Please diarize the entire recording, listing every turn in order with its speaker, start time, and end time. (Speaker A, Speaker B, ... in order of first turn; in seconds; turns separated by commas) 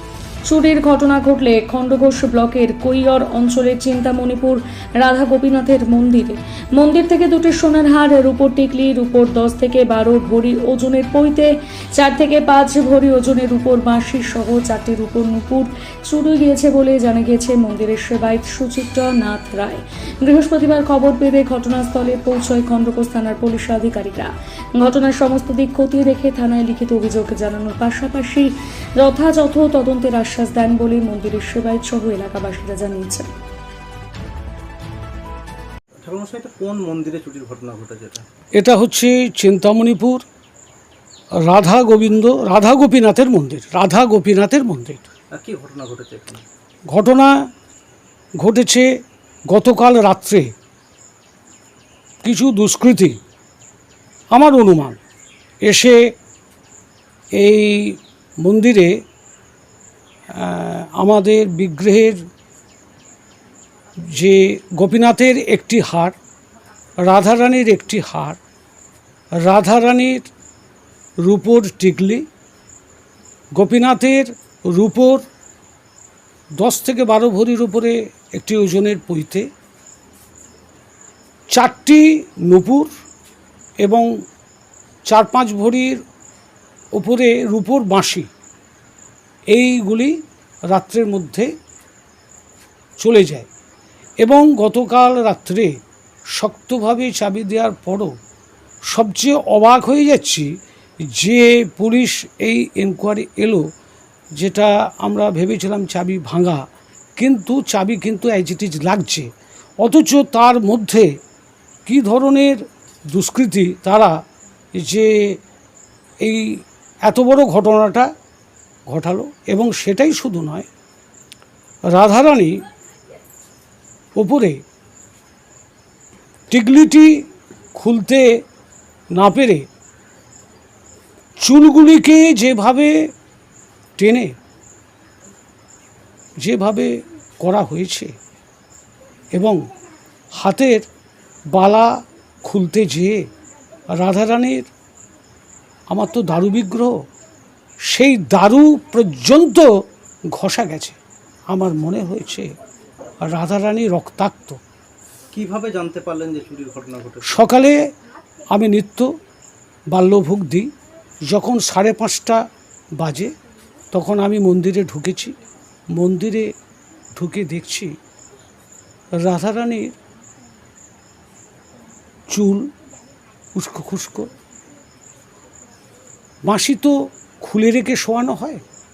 Speaker A: 0.4-33.3, Speaker B: 36.0-38.2, Speaker C: 38.5-40.2, Speaker C: 41.5-45.0, Speaker B: 45.3-46.4, Speaker C: 46.9-47.4, Speaker C: 48.4-48.9, Speaker C: 49.5-50.5, Speaker C: 52.2-53.2, Speaker C: 54.3-55.0, Speaker C: 55.6-56.0, Speaker C: 57.4-59.0, Speaker C: 60.3-62.2, Speaker C: 64.1-66.2, Speaker C: 67.0-68.4, Speaker C: 69.4-70.3, Speaker C: 71.2-72.2, Speaker C: 73.5-75.2, Speaker C: 76.6-79.5, Speaker C: 81.5-82.9, Speaker C: 83.8-84.1, Speaker C: 85.1-86.0, Speaker C: 86.9-88.3, Speaker C: 89.5-91.5, Speaker C: 93.0-93.5, Speaker C: 94.2-95.7, Speaker C: 96.3-98.1, Speaker C: 98.9-100.5, Speaker C: 101.1-103.6, Speaker C: 104.4-106.6, Speaker C: 107.2-109.3, Speaker C: 109.8-111.1, Speaker C: 111.8-114.1, Speaker C: 114.8-115.4, Speaker C: 116.2-116.5, Speaker C: 117.0-118.1, Speaker C: 118.9-120.7, Speaker C: 121.9-122.6, Speaker C: 124.2-124.6, Speaker C: 126.5-127.1, Speaker C: 127.8-128.3, Speaker C: 129.1-129.6, Speaker C: 131.4-133.1, Speaker C: 134.0-134.3, Speaker C: 136.4-138.1, Speaker C: 139.3-139.6, Speaker C: 140.4-140.9, Speaker C: 141.5-141.9, Speaker C: 142.4-143.2, Speaker C: 143.9-144.7, Speaker C: 145.9-147.0, Speaker C: 147.9-149.7, Speaker C: 150.3-151.0, Speaker C: 151.5-152.5, Speaker C: 153.2-154.6, Speaker B: 155.3-157.4, Speaker C: 157.2-157.8, Speaker C: 158.5-159.1, Speaker C: 159.9-160.7, Speaker C: 161.3-162.4, Speaker C: 163.0-163.3, Speaker C: 163.9-165.3, Speaker C: 165.9-166.5, Speaker C: 167.2-167.9, Speaker C: 169.2-169.9, Speaker C: 172.3-172.7, Speaker C: 173.5-174.3, Speaker C: 176.4-178.6